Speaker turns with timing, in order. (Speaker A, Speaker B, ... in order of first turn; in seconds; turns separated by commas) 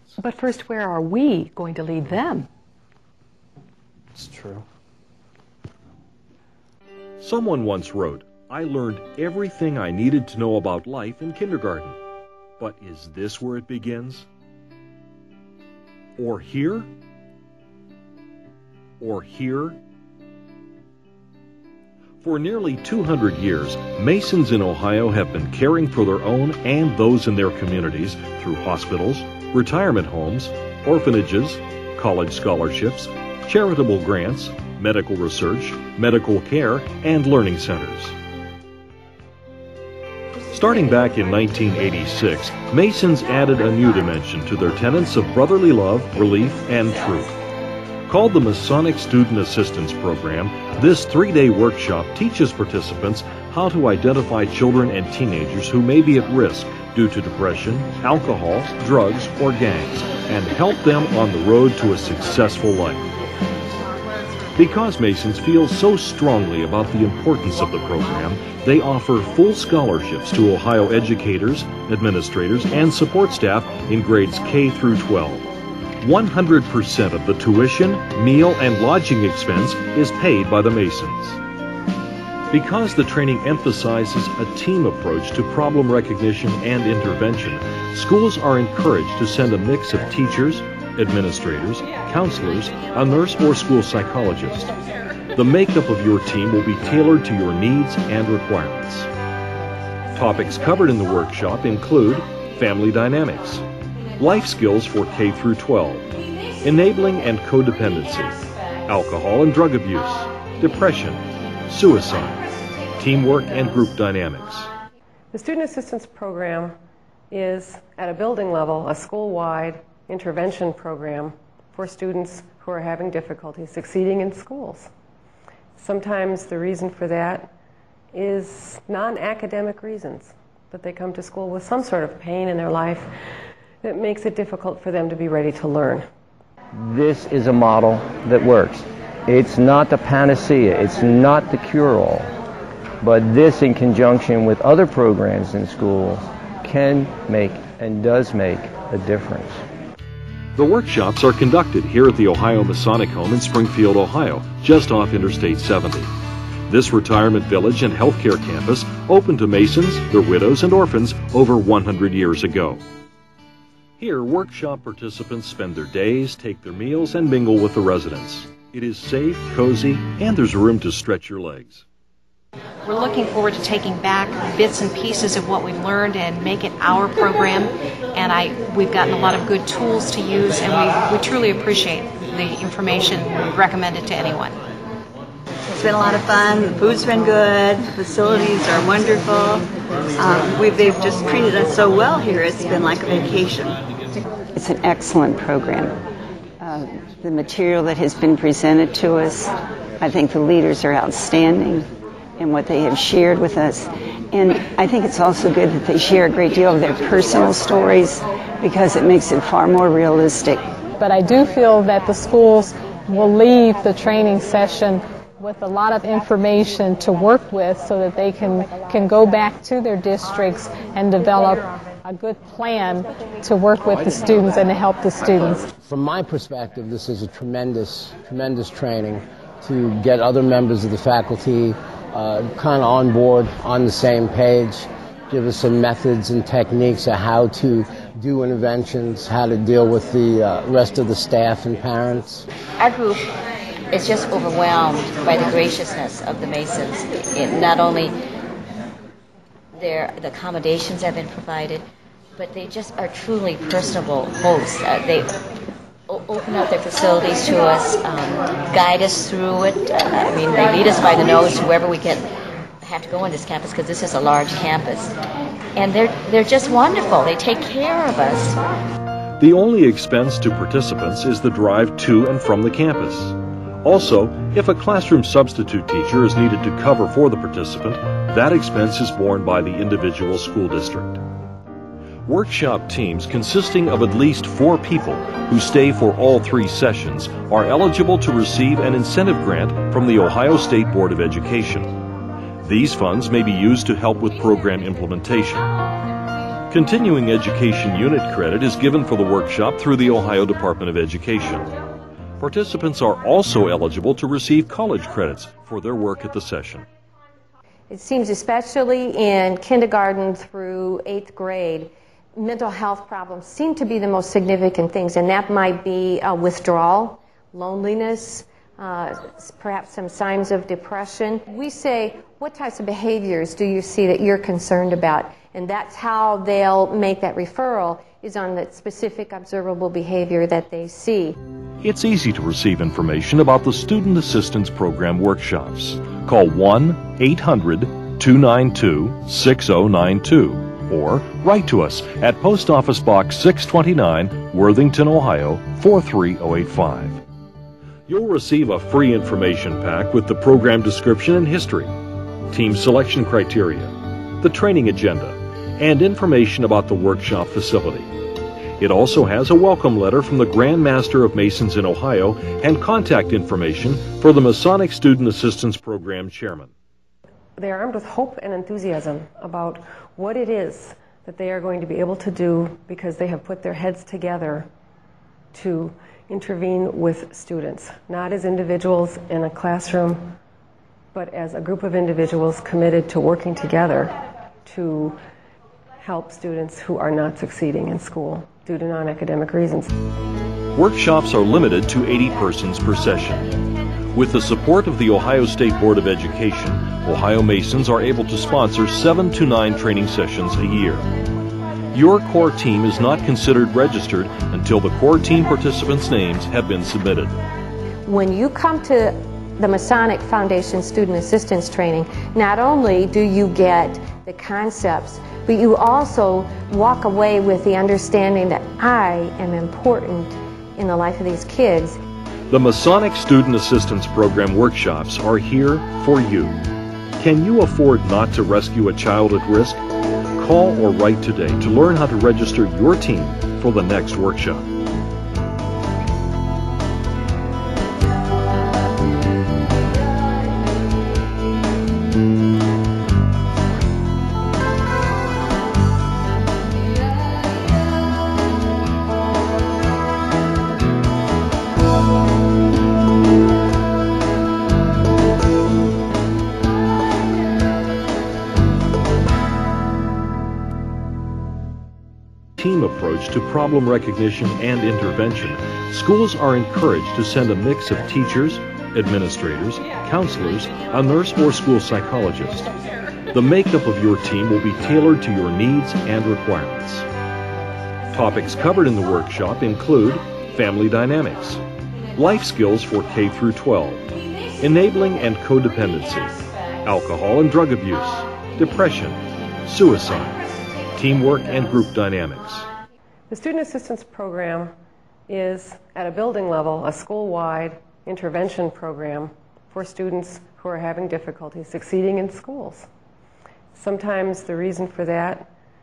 Speaker A: 0.2-2.5, Speaker B: 4.2-4.6, Speaker C: 7.2-12.0, Speaker C: 12.6-14.3, Speaker C: 16.2-16.9, Speaker C: 19.0-19.8, Speaker C: 22.2-38.1, Speaker C: 40.5-47.3, Speaker C: 48.1-63.1, Speaker C: 64.6-75.5, Speaker C: 76.0-81.4, Speaker C: 82.5-94.7, Speaker C: 95.3-99.1, Speaker C: 100.1-103.6, Speaker C: 104.2-106.1, Speaker C: 106.6-112.4, Speaker C: 113.0-114.7, Speaker D: 115.3-116.8, Speaker D: 117.3-124.9, Speaker D: 125.8-127.5, Speaker D: 128.1-133.1, Speaker D: 133.8-136.1, Speaker E: 136.7-142.3, Speaker E: 143.0-149.6, Speaker C: 150.6-156.1, Speaker C: 156.7-162.8, Speaker C: 164.0-171.8, Speaker F: 172.8-184.6, Speaker G: 185.7-193.8, Speaker B: 194.5-196.0, Speaker B: 196.6-210.7, Speaker H: 211.0-225.7, Speaker I: 225.7-242.5, Speaker J: 242.8-243.3, Speaker J: 243.9-248.2, Speaker J: 249.7-251.8, Speaker J: 252.3-255.3, Speaker J: 256.1-262.2, Speaker J: 262.8-265.1, Speaker J: 265.8-268.6, Speaker C: 269.4-281.2, Speaker C: 282.3-291.9, Speaker C: 292.6-295.7, Speaker C: 296.7-301.7, Speaker C: 302.4-306.9, Speaker K: 307.9-331.4, Speaker C: 331.8-347.2, Speaker C: 348.1-351.9, Speaker C: 352.5-358.1, Speaker C: 358.8-366.7, Speaker D: 367.6-374.7, Speaker D: 375.5-380.4, Speaker D: 381.1-385.2, Speaker D: 386.0-389.9, Speaker C: 390.8-393.6, Speaker C: 394.1-401.1, Speaker C: 401.9-407.4, Speaker K: 408.0-422.0, Speaker C: 422.5-426.6, Speaker C: 427.2-429.8, Speaker C: 430.4-434.7, Speaker C: 462.6-472.7, Speaker C: 473.3-477.1, Speaker C: 478.1-481.6, Speaker C: 482.1-484.0, Speaker C: 484.6-490.4, Speaker C: 490.9-492.7, Speaker D: 493.3-494.7, Speaker D: 495.3-502.9, Speaker D: 503.8-505.5